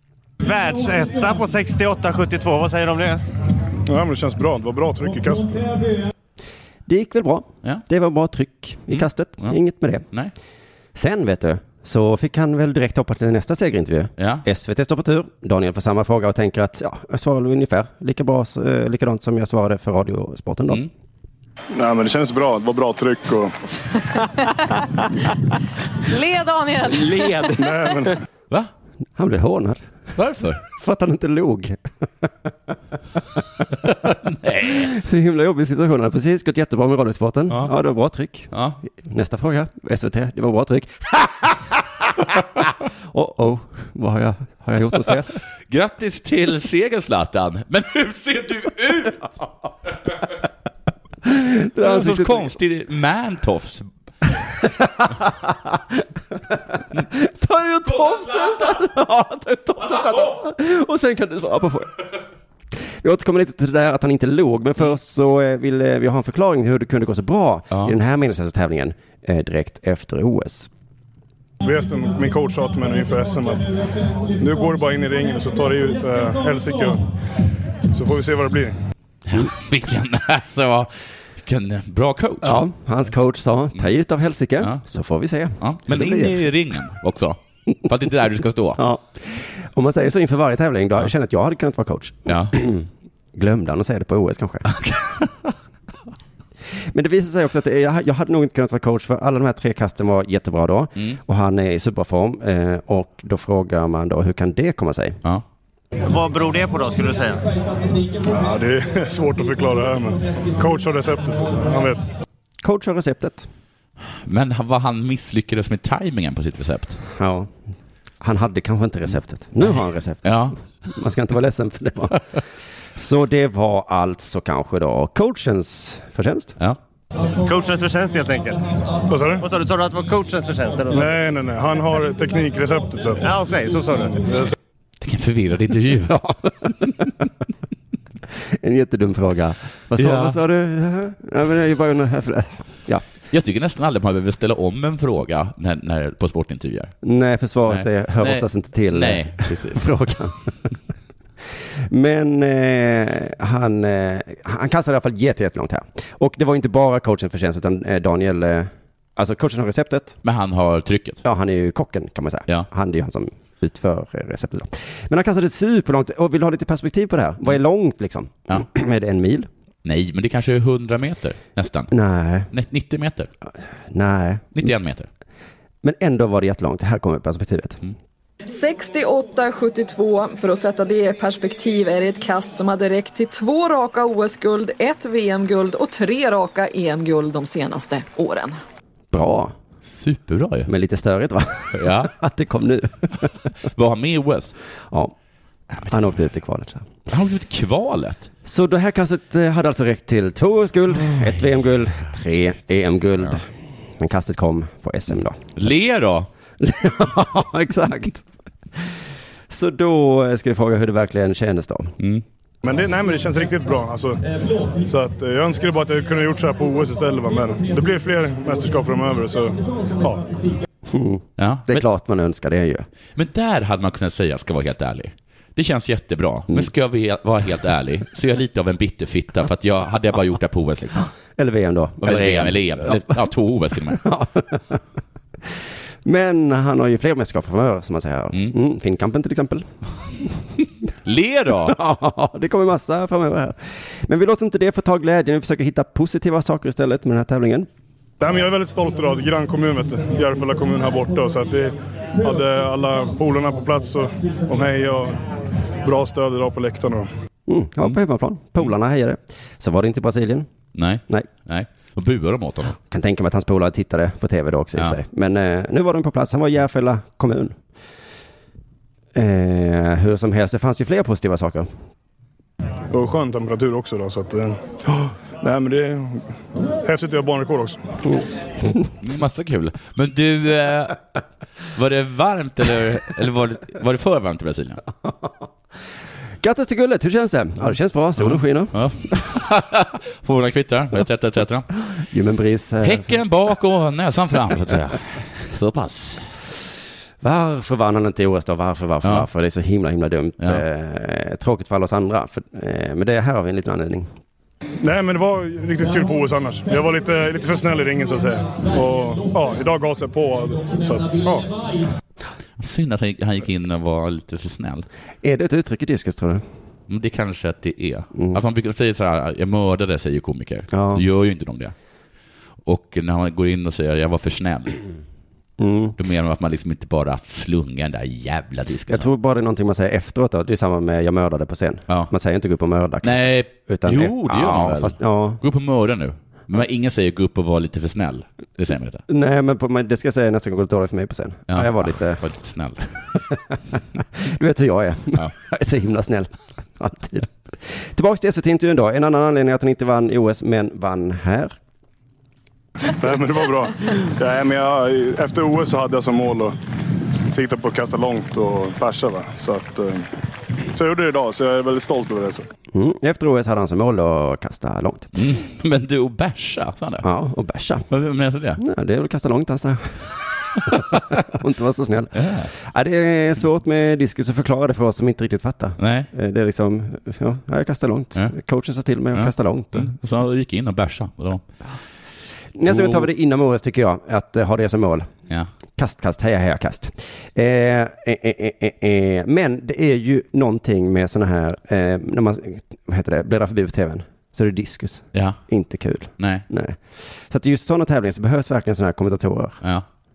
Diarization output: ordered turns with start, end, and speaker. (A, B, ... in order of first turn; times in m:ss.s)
0:00.4-0:03.2 A
0:03.9-0:05.7 B
0:06.9-0:10.0 C
0:08.9-0:09.6 D
0:11.0-0:20.8 C
0:14.2-0:14.4 D
0:21.7-0:23.6 B
0:26.1-0:27.5 E
0:27.6-0:28.2 B
0:29.2-0:29.8 C
0:30.2-0:30.6 D
0:30.8-0:31.8 C
0:33.9-0:34.9 D
0:34.7-0:45.3 C
0:38.5-0:38.8 D
0:45.7-0:49.4 D
0:51.3-0:52.6 C
0:51.8-0:53.9 D
0:54.6-0:55.8 C
0:56.5-1:01.9 C
0:58.3-0:58.7 D
1:03.0-1:10.7 C
1:11.6-1:13.7 B
1:14.4-1:17.0 B
1:17.9-1:18.8 B
1:19.3-1:22.6 D
1:22.4-1:26.5 C
1:25.6-1:28.8 D
1:28.8-1:34.7 C
1:32.3-1:32.6 D
1:34.7-1:35.5 D
1:36.9-1:45.2 C
1:46.1-1:47.4 A
1:48.2-1:52.0 B
1:52.6-1:53.5 C
1:54.2-1:57.0 D
1:57.1-1:57.5 C
1:58.2-2:02.2 C
2:00.2-2:00.6 D
2:03.0-2:06.6 C
2:07.4-2:08.6 A
2:09.1-2:09.4 B
2:09.4-2:11.2 A
2:10.9-2:13.3 B
2:13.2-2:14.2 A
2:15.0-2:16.7 D
2:16.1-2:16.3 C
2:18.5-2:23.0 C
2:20.0-2:20.4 D
2:23.3-2:26.9 D
2:27.0-2:30.5 C
2:27.7-2:29.8 D
2:31.9-2:40.2 C
2:40.2-2:41.2 D
2:41.2-2:49.5 C
2:49.8-2:51.9 D
2:51.9-2:52.5 C
2:52.5-2:53.3 D
2:53.9-2:54.7 C
2:54.6-2:55.1 D
2:55.8-2:57.8 C
2:58.4-3:08.6 E
3:09.1-3:09.5 C
3:09.8-3:10.7 D
3:10.7-3:13.3 C
3:11.8-3:12.1 D
3:13.6-3:14.6 D
3:15.8-3:16.9 C
3:17.1-3:18.3 D
3:18.5-3:23.4 C
3:24.0-3:25.4 C
3:25.6-3:26.3 D
3:26.6-3:28.2 C
3:29.5-3:32.0 C
3:32.6-3:34.2 B
3:34.8-3:40.3 B
3:40.9-3:42.9 C
3:41.4-3:41.8 D
3:43.2-3:51.1 D
3:51.4-3:53.2 C
3:52.0-3:54.1 D
3:53.9-3:54.8 C
3:56.0-3:59.7 C
4:01.0-4:01.8 D
4:01.6-4:07.7 C
4:08.2-4:15.2 B
4:15.8-4:17.1 B
4:17.5-4:20.5 C
4:20.8-4:22.8 D
4:22.8-4:27.6 C
4:29.1-4:31.7 C
4:32.9-4:36.3 B
4:36.8-4:37.8 B
4:38.1-4:38.9 C
4:39.0-4:41.0 D
4:41.7-4:44.8 D
4:46.4-4:48.8 C
4:48.2-4:51.7 D
4:51.9-4:53.2 C
4:52.8-4:56.3 D
4:54.6-4:55.0 C
4:57.2-5:04.1 C
5:04.8-5:11.5 B
5:12.6-5:14.9 D
5:15.2-5:16.4 C
5:16.9-5:21.7 D
5:20.7-5:21.0 C
5:22.7-5:24.8 D
5:25.6-5:26.0 C
5:26.0-5:29.1 D
5:28.9-5:35.4 C
5:33.0-5:39.0 D
5:39.1-5:42.2 C
5:41.5-5:42.9 D
5:44.2-5:51.6 C
5:52.9-5:56.6 B
5:57.3-6:00.1 B
6:00.7-6:02.5 B
6:02.7-6:05.1 C
6:05.2-6:07.1 D
6:07.0-6:07.8 C
6:07.9-6:08.6 D
6:08.6-6:10.1 C
6:10.7-6:19.9 C
6:12.2-6:12.5 D
6:15.8-6:16.1 D
6:19.1-6:21.4 D
6:22.6-6:25.1 C
6:22.7-6:23.1 D
6:25.8-6:39.6 C
6:36.2-6:36.4 D